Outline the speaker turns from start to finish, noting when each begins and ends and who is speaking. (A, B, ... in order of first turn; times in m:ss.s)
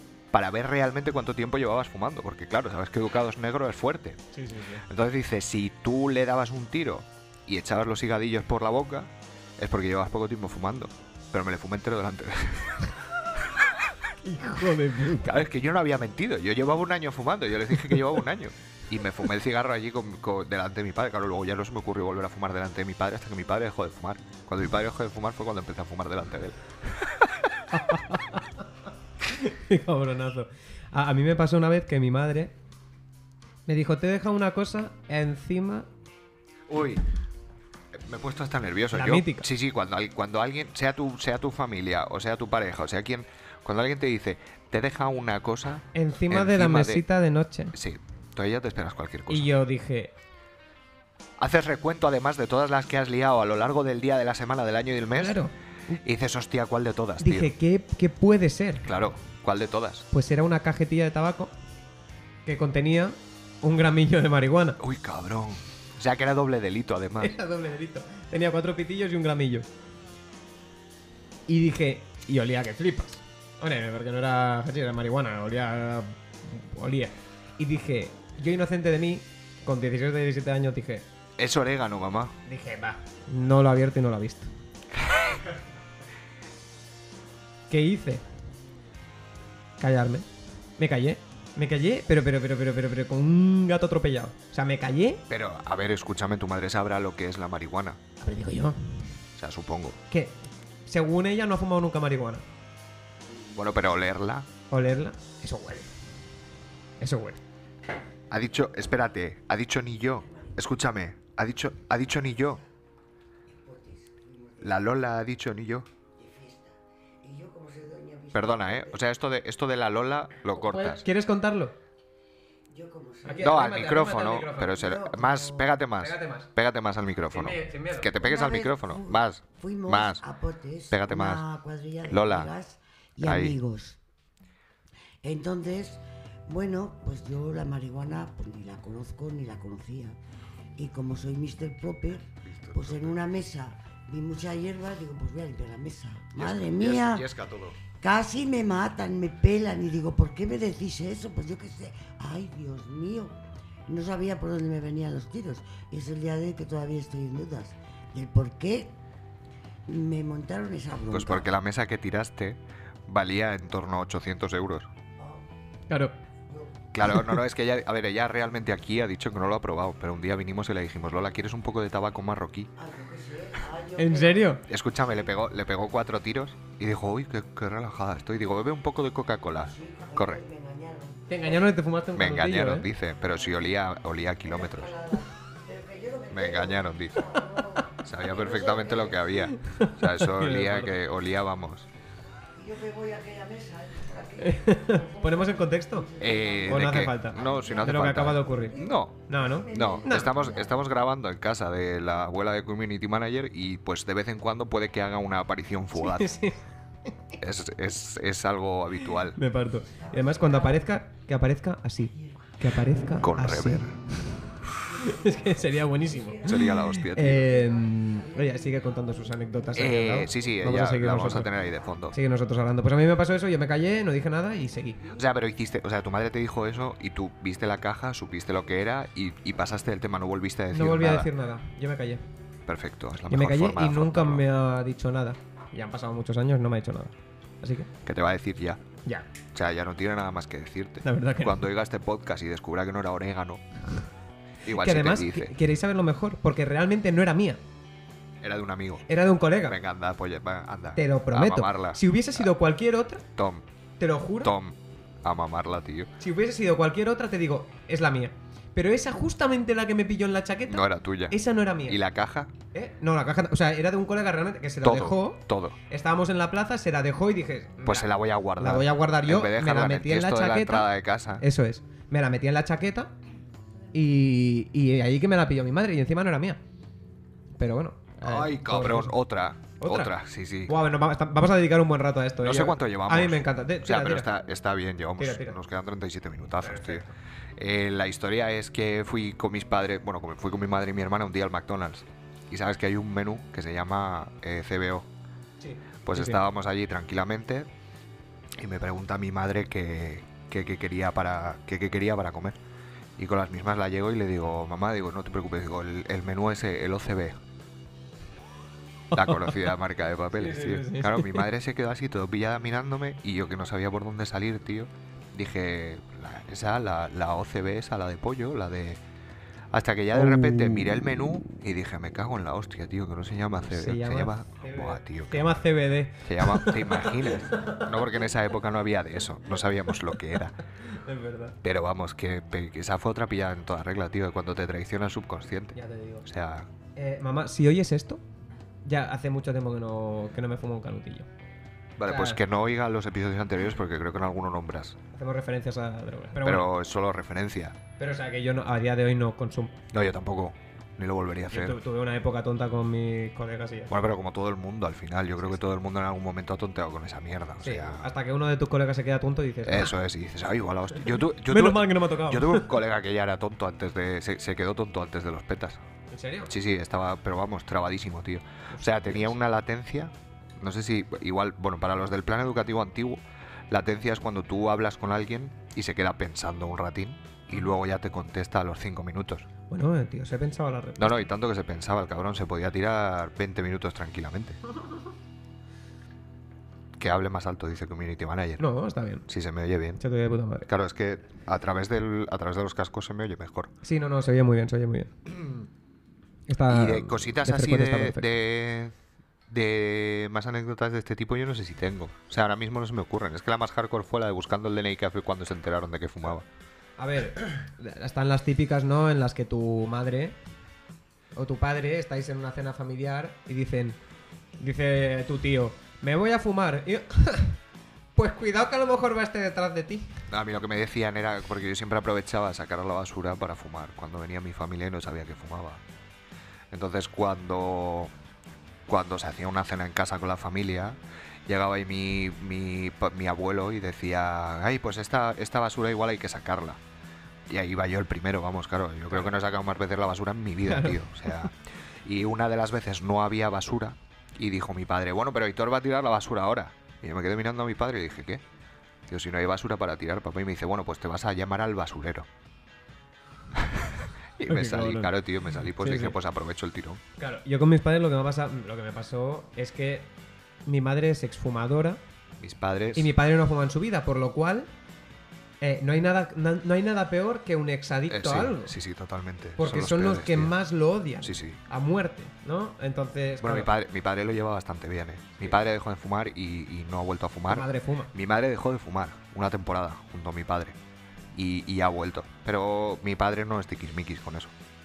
0:00.3-0:04.2 A
0:04.3-0:04.8 B
0:04.8-0:13.9 A
0:14.2-0:15.4 B
0:15.1-0:27.5 A
0:27.7-0:28.6 B
0:29.3-0:32.5 B
0:33.7-0:35.9 B
0:36.7-0:37.0 A
0:37.9-0:47.0 A
0:38.9-0:39.5 B
0:45.9-0:47.8 B
0:47.7-0:49.5 A
0:49.3-0:50.1 B
0:51.4-0:55.4 A
0:55.1-0:56.0 B
0:56.0-0:57.5 A
0:57.2-0:58.9 B
0:58.8-1:00.1 A
1:00.1-1:01.5 B
1:02.5-1:04.8 B
1:04.8-1:07.4 A
1:07.2-1:09.6 B
1:11.5-1:21.0 B
1:21.4-1:22.4 A
1:22.5-1:24.5 B
1:24.9-1:25.4 A
1:27.7-1:28.2 B
1:29.8-1:30.2 B
1:30.8-1:35.2 B
1:35.3-1:38.0 A
1:38.2-1:38.8 B
1:39.4-1:40.0 A
1:40.1-1:42.4 B
1:43.5-1:44.5 A
1:44.7-1:45.9 B
1:47.0-1:47.4 B
1:48.3-1:52.6 A
1:50.2-1:50.6 C
1:53.5-1:54.8 C
1:54.6-1:55.9 A
1:56.2-1:59.0 C
1:58.3-2:01.0 A
2:00.5-2:01.8 B
2:02.7-2:03.8 C
2:03.2-2:05.0 B
2:03.4-2:10.2 A
2:04.7-2:05.7 C
2:05.8-2:06.5 B
2:07.3-2:08.1 B
2:08.1-2:14.0 C
2:10.9-2:11.4 A
2:12.1-2:12.5 A
2:13.2-2:13.6 A
2:15.2-2:20.2 C
2:20.8-2:27.3 C
2:22.4-2:23.2 A
2:26.4-2:27.8 A
2:28.0-2:39.0 C
2:39.9-2:41.5 C
2:41.0-2:44.9 A
2:45.2-2:45.4 C
2:45.9-2:46.1 B
2:46.5-2:46.8 C
2:46.9-2:52.7 A
2:52.8-2:54.7 C
2:54.0-2:54.6 B
2:54.6-3:00.4 A
2:59.6-3:01.8 C
3:01.3-3:02.9 B
3:02.1-3:05.0 A
3:03.4-3:03.6 C
3:04.5-3:09.5 C
3:06.3-3:07.3 A
3:08.0-3:11.9 A
3:09.5-3:11.0 B
3:12.6-3:20.8 C
3:14.4-3:16.1 B
3:16.2-3:26.3 A
3:16.7-3:18.8 B
3:19.3-3:20.3 B
3:26.0-3:26.6 B
3:27.4-3:29.4 A
3:29.2-3:33.9 B
3:29.9-3:30.9 C
3:33.2-3:34.0 A
3:34.6-3:40.2 C
3:35.0-3:41.5 B
3:36.5-3:37.4 A
3:39.8-3:42.2 A
3:41.4-3:41.9 C
3:42.1-3:45.0 B
3:45.1-3:51.3 A
3:50.7-3:52.2 B
3:52.6-3:54.4 A
3:53.3-3:57.9 B
3:58.0-3:58.8 A
3:59.5-4:03.6 A
4:01.0-4:01.6 B
4:04.6-4:05.5 A
4:04.6-4:07.6 B
4:08.4-4:09.1 A
4:09.1-4:09.8 B
4:09.6-4:12.5 A
4:11.0-4:13.2 B
4:13.4-4:13.6 A
4:14.0-4:14.5 B
4:14.4-4:16.1 A
4:16.2-4:22.0 B
4:20.7-4:22.5 A
4:22.7-4:30.9 B
4:24.8-4:25.8 A
4:27.8-4:31.4 A
4:31.4-4:33.1 B
4:33.9-4:36.6 B
4:37.6-4:39.2 B
4:38.2-4:40.8 A
4:39.8-4:40.1 B
4:40.6-4:44.3 B
4:42.4-4:55.1 A
4:45.2-4:45.6 B
4:46.6-4:47.1 B
4:55.6-4:56.4 B
4:56.0-4:57.7 A
4:58.5-5:02.6 A
5:03.2-5:07.4 A
5:09.1-5:19.0 A
5:09.1-5:09.6 B
5:10.4-5:11.5 B
5:19.7-5:25.5 A
5:20.1-5:21.0 B
5:23.7-5:27.9 B
5:26.2-5:30.6 A
5:30.8-5:31.6 B
5:31.6-5:36.7 A
5:35.7-5:36.3 B
5:37.0-5:38.2 B
5:38.8-5:41.3 B
5:42.0-5:45.0 A
5:42.0-5:42.4 B
5:45.1-5:46.7 B
5:46.4-5:47.8 A
5:48.0-5:49.8 B
5:49.9-5:51.8 A
5:51.5-5:53.9 B
5:53.9-5:58.1 A
5:57.6-5:59.9 B
5:59.6-6:05.8 A
6:01.4-6:02.7 B
6:06.1-6:06.5 B
6:06.5-6:19.5 A
6:08.7-6:09.4 B
6:19.7-6:21.3 B
6:21.0-6:24.6 A
6:27.0-6:28.6 A
6:28.6-6:29.2 B
6:29.3-6:30.0 A
6:30.0-6:30.7 B
6:30.6-6:33.7 A
6:33.8-6:35.1 B
6:35.2-6:35.7 A
6:36.5-6:38.3 B
6:36.6-6:38.9 A
6:39.5-6:46.5 A
6:47.0-6:50.4 B
6:51.4-6:54.0 B
6:54.6-6:57.6 B
6:58.2-7:00.2 B
7:00.3-7:05.8 A
7:06.7-7:08.1 A
7:08.9-7:16.8 A
7:17.5-7:28.4 A
7:20.6-7:21.5 B
7:29.1-7:32.3 A
7:33.5-7:37.0 A
7:34.5-7:36.2 B
7:37.2-7:40.1 B
7:40.6-7:42.0 B
7:42.4-7:43.1 A
7:42.9-7:44.7 B
7:45.6-7:48.7 B
7:48.1-7:50.5 A
7:49.6-7:53.7 B
7:51.2-7:51.6 A
7:53.4-8:00.8 A
7:57.5-7:58.1 B
8:01.3-8:04.5 A